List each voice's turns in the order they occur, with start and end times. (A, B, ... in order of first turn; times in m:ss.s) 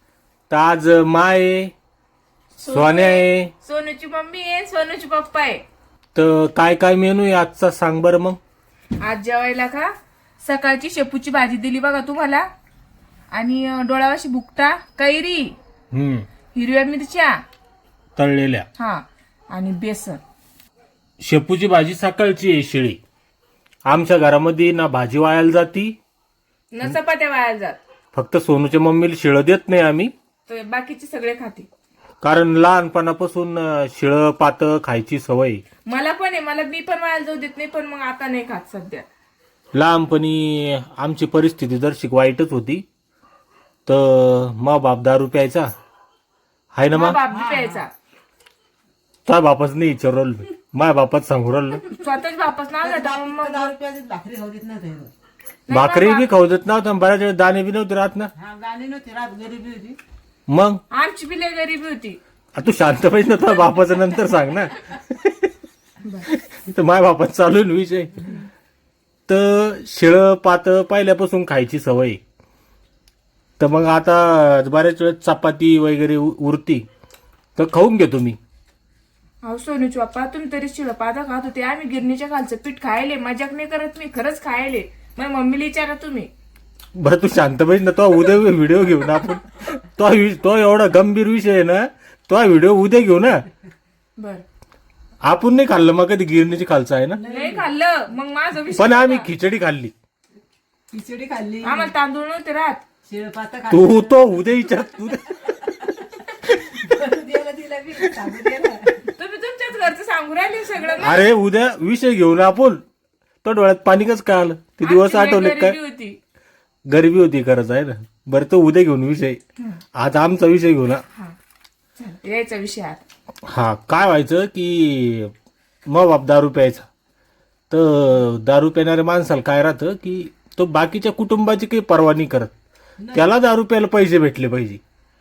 0:00.5-0:01.7 A
0:02.6-0:05.6 B
0:02.7-0:03.5 A
0:06.2-0:08.4 A
0:09.0-0:12.5 B
0:13.3-0:15.6 B
0:15.9-0:16.3 A
0:16.5-0:17.4 B
0:18.2-0:18.7 A
0:18.8-0:20.2 B
0:21.2-0:23.0 A
0:23.9-0:26.0 A
0:26.7-0:27.8 B
0:28.1-0:30.1 A
0:30.5-0:31.7 B
0:32.2-0:35.6 A
0:35.9-0:39.0 B
0:39.7-0:42.8 A
0:43.9-0:45.7 A
0:46.7-0:47.2 A
0:46.9-0:47.9 B
0:47.3-0:47.8 C
0:49.3-0:51.9 A
0:51.9-0:53.7 B
0:52.8-0:55.1 C
0:55.7-0:56.3 B
0:55.7-0:58.3 A
0:58.4-1:00.0 C
1:00.5-1:00.8 A
1:00.9-1:02.2 B
1:02.6-1:05.5 A
1:06.0-1:06.3 B
1:06.3-1:08.4 A
1:09.3-1:12.2 A
1:13.6-1:16.8 A
1:17.6-1:18.4 A
1:19.4-1:26.3 B
1:27.0-1:33.4 A
1:34.2-1:34.4 B
1:35.2-1:37.2 A
1:37.1-1:37.7 C
1:37.3-1:39.3 B
1:38.8-1:39.9 A
1:40.9-1:41.9 C
1:41.6-1:42.8 B
1:43.1-1:44.6 C
1:43.7-1:45.6 A
1:45.3-1:49.1 C
1:49.2-1:51.3 B
1:51.0-1:52.8 A
1:53.4-1:55.8 A
1:54.8-1:56.2 B
1:56.9-1:59.4 A
2:00.0-2:01.0 A
2:02.0-2:03.0 B
2:03.5-2:05.3 A
2:05.9-2:06.9 A
2:07.7-2:12.5 A
2:13.0-2:13.4 C
2:13.1-2:14.8 A